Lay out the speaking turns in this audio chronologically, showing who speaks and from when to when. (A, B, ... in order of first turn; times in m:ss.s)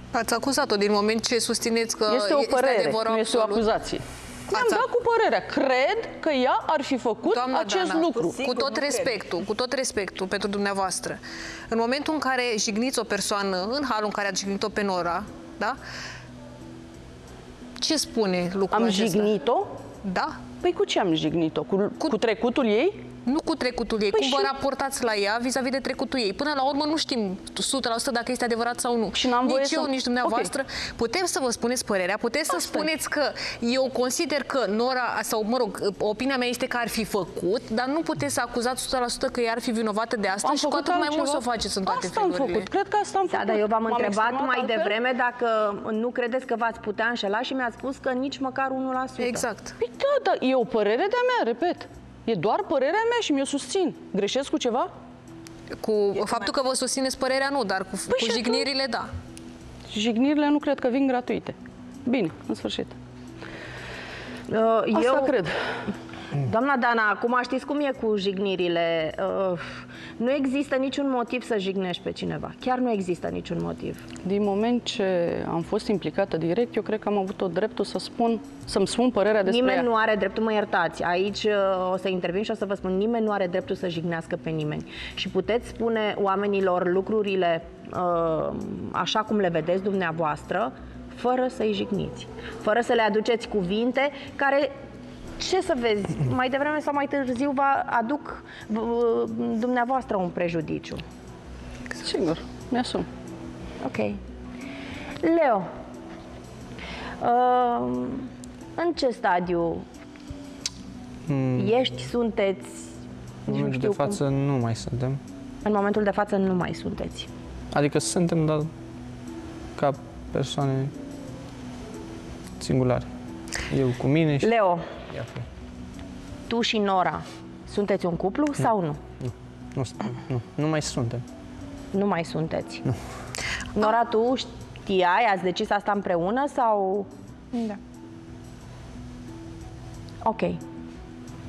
0:00.1-0:03.6 A
0:02.1-0:08.4 B
0:04.5-0:04.9 A
0:07.3-0:15.8 A
0:08.2-0:09.2 C
0:17.8-0:19.3 A
0:18.7-0:19.7 B
0:20.0-0:20.4 A
0:20.6-0:23.0 B
0:23.2-0:42.7 A
0:24.1-0:24.5 B
0:29.1-0:30.5 B
0:32.5-0:32.9 B
0:40.4-0:45.0 B
0:43.3-0:49.5 C
0:49.2-0:49.8 A
0:49.8-0:54.9 B
0:55.8-0:59.1 A
0:58.1-0:58.7 B
0:59.9-1:02.9 B
1:04.5-1:05.3 C
1:04.9-1:05.5 B
1:06.4-1:14.0 C
1:14.2-1:19.9 B
1:19.4-1:34.7 C
1:35.4-1:41.0 C
1:42.0-1:43.0 B
1:43.8-1:44.2 C
1:45.2-1:45.6 C
1:47.2-1:49.8 C
1:51.3-1:51.7 D
1:51.5-1:52.9 C
1:53.5-1:54.2 C
1:53.5-1:55.2 D
1:55.6-1:57.3 C
1:57.7-1:58.7 D
1:59.8-2:00.9 D
2:02.6-2:03.1 D
2:03.7-2:04.5 D
2:04.4-2:04.8 C
2:05.1-2:05.4 D
2:06.5-2:09.0 C
2:09.2-2:11.2 D
2:11.9-2:12.8 C
2:13.7-2:17.8 C
2:20.2-2:20.6 C